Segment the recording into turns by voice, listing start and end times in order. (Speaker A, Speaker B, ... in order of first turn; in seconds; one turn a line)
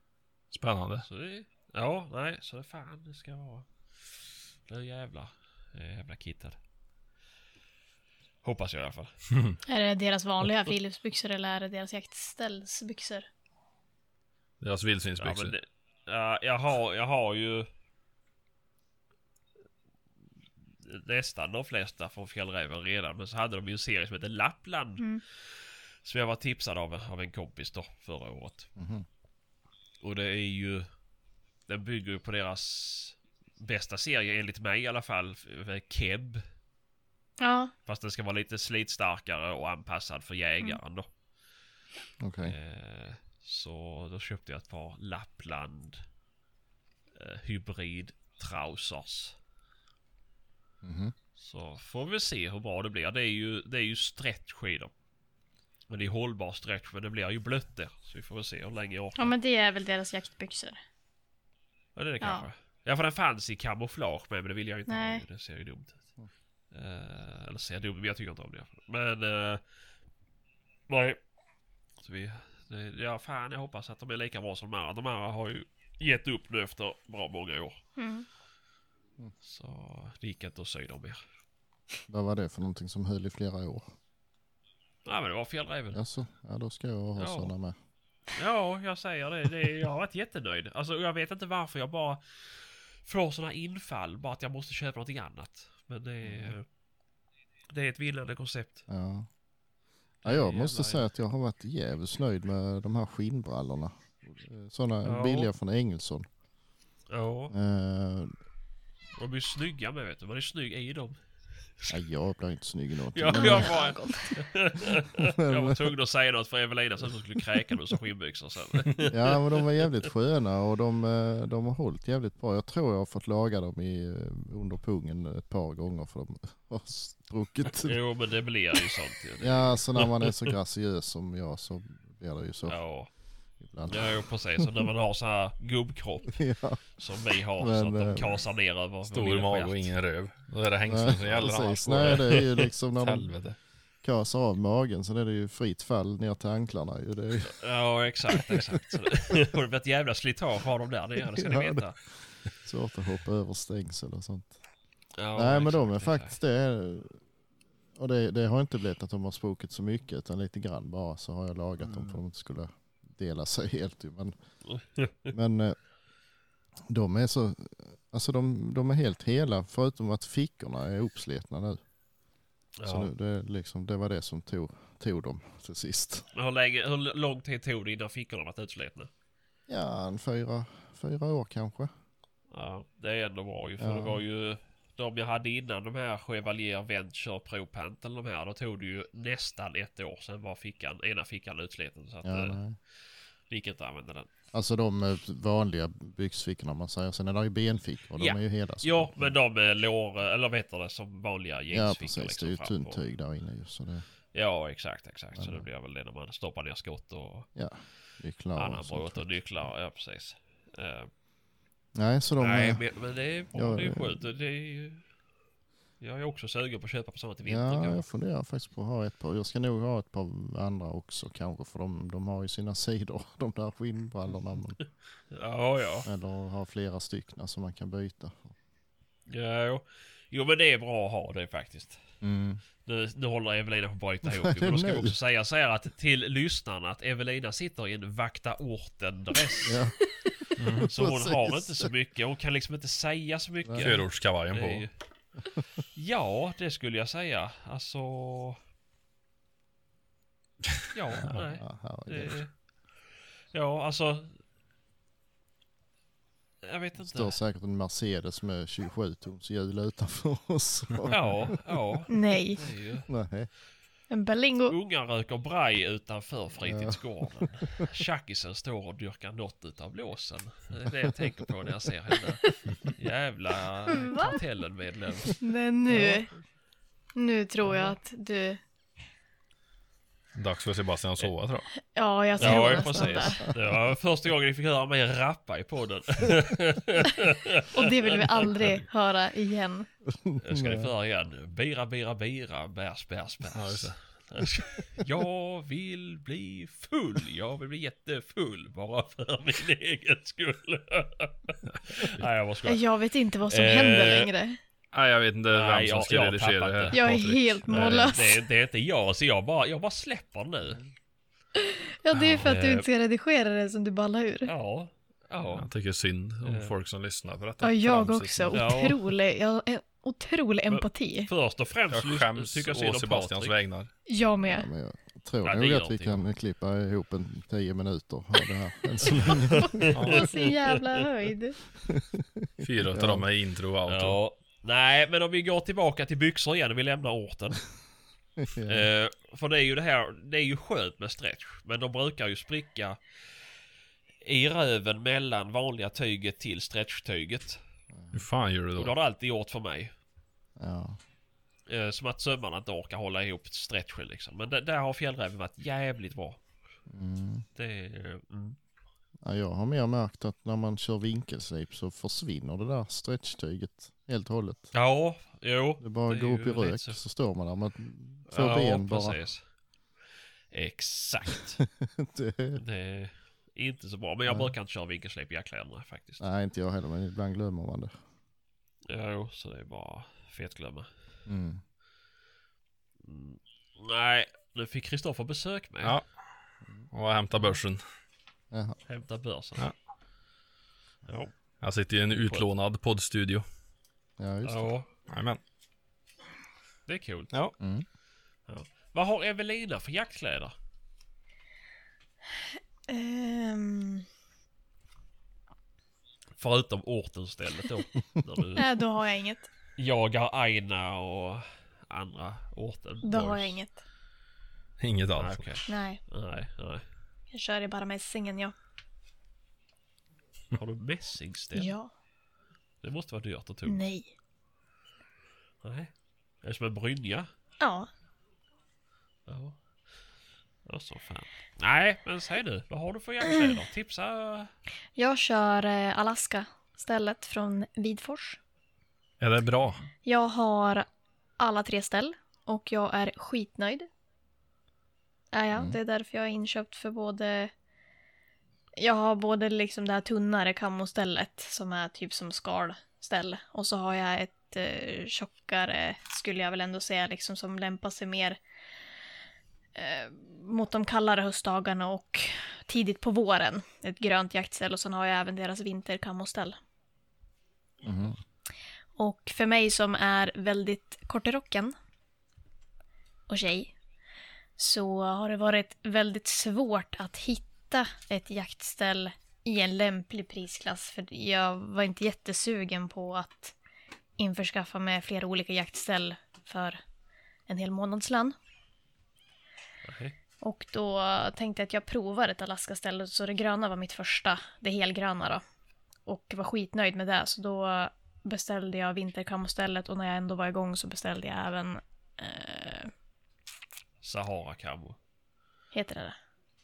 Speaker A: 0.5-1.1
Speaker B: 1.0-6.6
Speaker B: 8.4-9.2
Speaker C: 9.7-13.3
Speaker A: 14.6-15.6
Speaker B: 15.2-17.7
Speaker B: 20.8-28.7
Speaker D: 28.8-29.1
Speaker B: 30.0-30.9
Speaker B: 31.7-36.4
Speaker C: 37.4-37.7
Speaker B: 37.9-41.1
Speaker D: 42.2-42.5
Speaker B: 42.4-46.0
Speaker B: 47.1-49.4
Speaker D: 50.8-51.1
Speaker B: 51.4-54.9
Speaker B: 55.9-59.3
Speaker C: 59.2-60.8
Speaker B: 62.0-66.0
Speaker C: 64.9-65.2
Speaker B: 66.7-69.6
Speaker B: 70.9-71.2
Speaker B: 72.0-77.8
Speaker C: 78.0-78.3
Speaker B: 79.4-81.2
Speaker D: 82.1-83.9
Speaker B: 85.0-86.0
Speaker D: 85.9-87.8
Speaker B: 87.2-87.5
Speaker B: 88.3-96.6
Speaker D: 96.2-96.5
Speaker B: 97.7-98.8
Speaker D: 98.9-99.3
Speaker B: 100.2-101.1
Speaker D: 100.2-106.3
Speaker B: 105.0-105.5
Speaker B: 107.1-107.5
Speaker D: 107.5-108.3
Speaker B: 109.2-112.0
Speaker D: 111.9-113.8
Speaker B: 113.1-119.9
Speaker C: 113.3-114.4
Speaker D: 115.1-115.9
Speaker D: 119.1-128.0
Speaker B: 127.8-130.5
Speaker D: 129.4-132.8
Speaker B: 132.7-133.1
Speaker D: 133.6-134.7
Speaker B: 133.9-136.4
Speaker D: 136.3-137.0
Speaker B: 137.0-139.9
Speaker D: 137.6-138.4
Speaker A: 139.1-142.4
Speaker D: 140.9-143.3
Speaker B: 142.0-142.7
Speaker A: 143.0-143.6
Speaker D: 144.0-147.6
Speaker B: 147.4-152.0
Speaker D: 148.3-148.6
Speaker D: 151.3-151.9
Speaker D: 152.6-154.6
Speaker B: 155.2-156.4
Speaker D: 155.3-157.2
Speaker D: 157.9-164.4
Speaker B: 161.9-162.2
Speaker B: 164.7-165.3
Speaker D: 165.3-165.8
Speaker D: 166.9-171.8
Speaker B: 172.8-173.1
Speaker D: 172.8-176.3
Speaker B: 176.3-179.1
Speaker D: 179.7-181.9
Speaker B: 182.5-192.6
Speaker D: 183.8-184.2
Speaker D: 192.2-192.8
Speaker B: 193.5-194.3
Speaker D: 194.5-199.3
Speaker B: 198.2-203.0
Speaker D: 201.7-204.1
Speaker B: 204.3-207.5
Speaker D: 205.4-205.7
Speaker D: 207.6-209.3
Speaker B: 208.6-211.1
Speaker D: 211.9-212.8
Speaker B: 212.4-215.1
Speaker D: 213.5-214.2
Speaker B: 216.0-218.1
Speaker D: 217.4-224.8
Speaker B: 225.3-226.1
Speaker D: 226.1-228.6
Speaker B: 229.3-232.0
Speaker D: 232.2-232.6
Speaker B: 232.8-239.8
Speaker D: 234.2-235.2
Speaker D: 239.6-240.0
Speaker A: 240.6-240.9
Speaker D: 240.8-241.9
Speaker B: 240.8-244.9
Speaker D: 243.6-243.9
Speaker A: 243.8-244.9
Speaker B: 245.9-248.6
Speaker B: 250.9-252.5
Speaker D: 251.2-252.4
Speaker B: 253.5-254.4
Speaker B: 256.6-257.4
Speaker D: 257.0-261.6
Speaker B: 261.1-263.1
Speaker C: 262.1-262.6
Speaker D: 263.1-263.5
Speaker C: 264.1-264.8
Speaker B: 264.7-275.4
Speaker D: 266.6-267.5
Speaker C: 273.9-274.4
Speaker C: 275.4-276.3
Speaker C: 277.2-278.6
Speaker B: 277.6-277.9
Speaker A: 280.4-281.7
Speaker C: 281.9-283.4
Speaker B: 282.4-288.8
Speaker A: 282.4-282.8
Speaker C: 287.7-289.9
Speaker D: 290.1-290.9
Speaker B: 290.4-302.8
Speaker A: 293.5-293.9
Speaker C: 302.7-304.6
Speaker B: 303.5-304.3
Speaker A: 304.9-308.2
Speaker B: 305.5-307.0
Speaker C: 306.9-308.4
Speaker B: 307.7-310.8
Speaker C: 311.6-314.5
Speaker A: 312.1-312.5
Speaker B: 312.4-312.9
Speaker B: 314.4-315.7
Speaker A: 315.5-318.7
Speaker B: 316.4-316.8
Speaker C: 317.6-321.3
Speaker B: 318.5-319.0
Speaker B: 320.7-323.6
Speaker A: 321.9-323.9
Speaker C: 324.1-324.7
Speaker D: 324.4-330.0
Speaker B: 325.4-326.2
Speaker B: 329.2-330.9
Speaker C: 329.8-331.6
Speaker A: 329.9-330.3
Speaker D: 331.8-333.3
Speaker A: 332.6-334.2
Speaker B: 333.9-337.7
Speaker D: 338.4-338.9
Speaker B: 338.7-343.5
Speaker B: 344.2-347.6
Speaker D: 347.9-348.2
Speaker A: 348.1-348.9
Speaker B: 348.8-349.9
Speaker D: 350.6-351.0
Speaker B: 351.7-356.4
Speaker D: 356.9-357.4
Speaker B: 357.6-358.6
Speaker D: 359.2-364.7
Speaker B: 364.7-367.0
Speaker D: 365.8-369.2
Speaker B: 368.3-369.4
Speaker B: 370.5-371.6
Speaker D: 371.8-372.6
Speaker B: 372.6-376.2
Speaker D: 374.3-374.5
Speaker D: 376.2-377.9
Speaker B: 378.9-380.9
Speaker D: 381.3-381.6
Speaker B: 383.0-386.0
Speaker A: 385.8-386.2
Speaker A: 386.9-387.8
Speaker D: 388.5-388.8
Speaker B: 388.9-389.7
Speaker B: 391.1-391.3
Speaker A: 391.6-393.4
Speaker B: 392.1-392.5
Speaker D: 394.2-394.7
Speaker B: 394.4-394.9
Speaker A: 395.1-395.4
Speaker B: 396.9-397.3
Speaker D: 397.6-397.9
Speaker B: 398.5-400.5
Speaker C: 402.9-404.1
Speaker B: 406.4-408.8
Speaker C: 408.6-409.5
Speaker B: 409.8-413.6
Speaker C: 413.0-413.8
Speaker A: 414.8-415.4
Speaker B: 415.1-416.8
Speaker C: 415.7-416.0
Speaker C: 417.3-418.5
Speaker B: 420.5-421.7
Speaker C: 421.6-421.9
Speaker B: 422.8-423.8
Speaker C: 423.7-424.1
Speaker B: 425.6-425.9
Speaker B: 426.4-427.3
Speaker C: 427.6-427.9
Speaker B: 429.3-429.6
Speaker B: 430.7-434.5
Speaker C: 434.9-438.4
Speaker A: 439.2-439.8
Speaker C: 440.1-440.9
Speaker C: 441.4-443.9
Speaker C: 445.3-447.5
Speaker C: 448.8-458.4
Speaker C: 459.8-466.6
Speaker D: 467.8-468.2
Speaker C: 468.9-471.8
Speaker C: 473.3-473.7
Speaker C: 474.6-483.6
Speaker C: 484.2-486.8
Speaker C: 487.5-488.4
Speaker B: 489.9-490.2
Speaker C: 490.4-495.4
Speaker C: 496.1-502.9
Speaker B: 504.0-505.0
Speaker C: 505.7-506.2